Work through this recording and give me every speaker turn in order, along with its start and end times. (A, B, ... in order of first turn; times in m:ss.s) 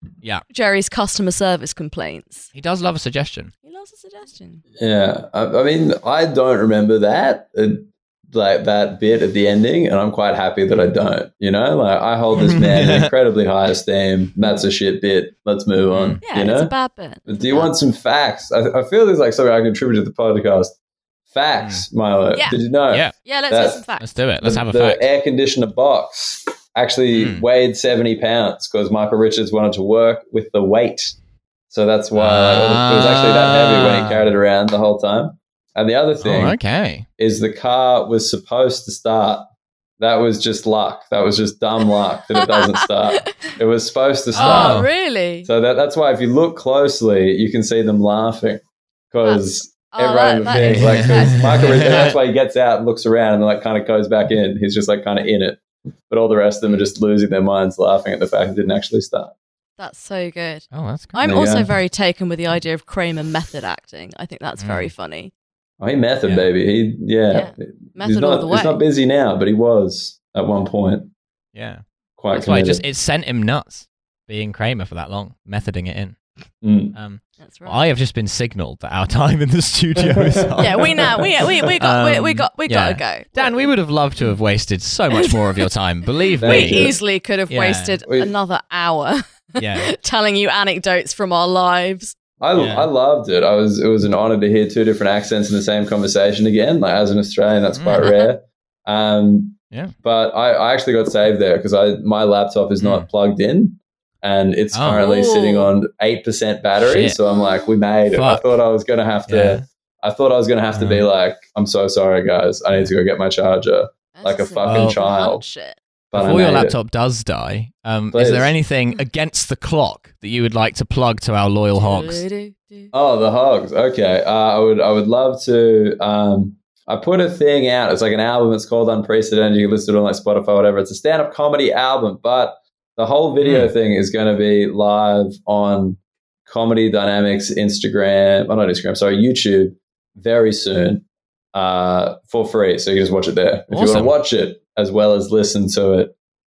0:00.5-0:02.5 A
0:02.5-0:03.5 B
0:03.6-0:04.6 A
0:04.8-0:16.7 C
0:12.4-0:13.1 B
0:15.9-0:16.2 B
0:16.2-0:17.7 A
0:17.3-0:20.7 C
0:21.3-0:23.8 C
0:21.6-0:21.8 B
0:23.2-0:24.1 A
0:24.0-0:25.1 B
0:24.4-0:31.2 C
0:27.1-0:27.4 B
0:31.7-0:36.6 C
0:32.1-0:34.3 B
0:36.2-0:37.0 B
0:37.2-0:39.5 C
0:40.0-0:44.8 C
0:42.4-0:43.3 A
0:44.3-0:44.9 B
0:44.3-0:45.5 A
0:45.4-0:59.3 C
0:49.2-0:52.1 A
0:50.6-0:52.1 B
0:59.8-1:05.3 A
1:00.7-1:01.2 B
1:01.2-1:01.7 C
1:04.6-1:04.9 B
1:05.8-1:11.1 C
1:07.3-1:08.8 A
1:11.5-1:16.2 B
1:12.2-1:12.8 C
1:16.6-1:17.0 C
1:16.9-1:21.2 B
1:17.4-1:17.9 A
1:20.6-1:23.6 A
1:20.8-1:21.0 C
1:21.8-1:26.9 B
1:25.1-1:25.7 A
1:26.4-1:26.9 C
1:26.4-1:32.1 A
1:27.5-1:28.0 B
1:28.0-1:28.3 C
1:29.6-1:29.9 B
1:32.4-1:55.4 C
1:32.5-1:32.9 B
1:37.7-1:38.1 B
1:42.8-1:43.1 B
1:44.7-1:45.0 B
1:44.9-1:45.7 A
1:46.8-1:47.2 B
1:48.1-1:48.5 B
1:49.3-1:49.6 B
1:50.7-1:51.0 B
1:54.1-1:55.8 A
1:54.6-1:55.0 B
1:56.1-1:56.8 C
1:56.1-2:02.2 B
1:58.1-1:58.5 C
2:01.7-2:02.9 A
2:02.9-2:21.0 C
2:13.4-2:13.7 B
2:21.5-2:26.1 C
2:23.7-2:24.1 B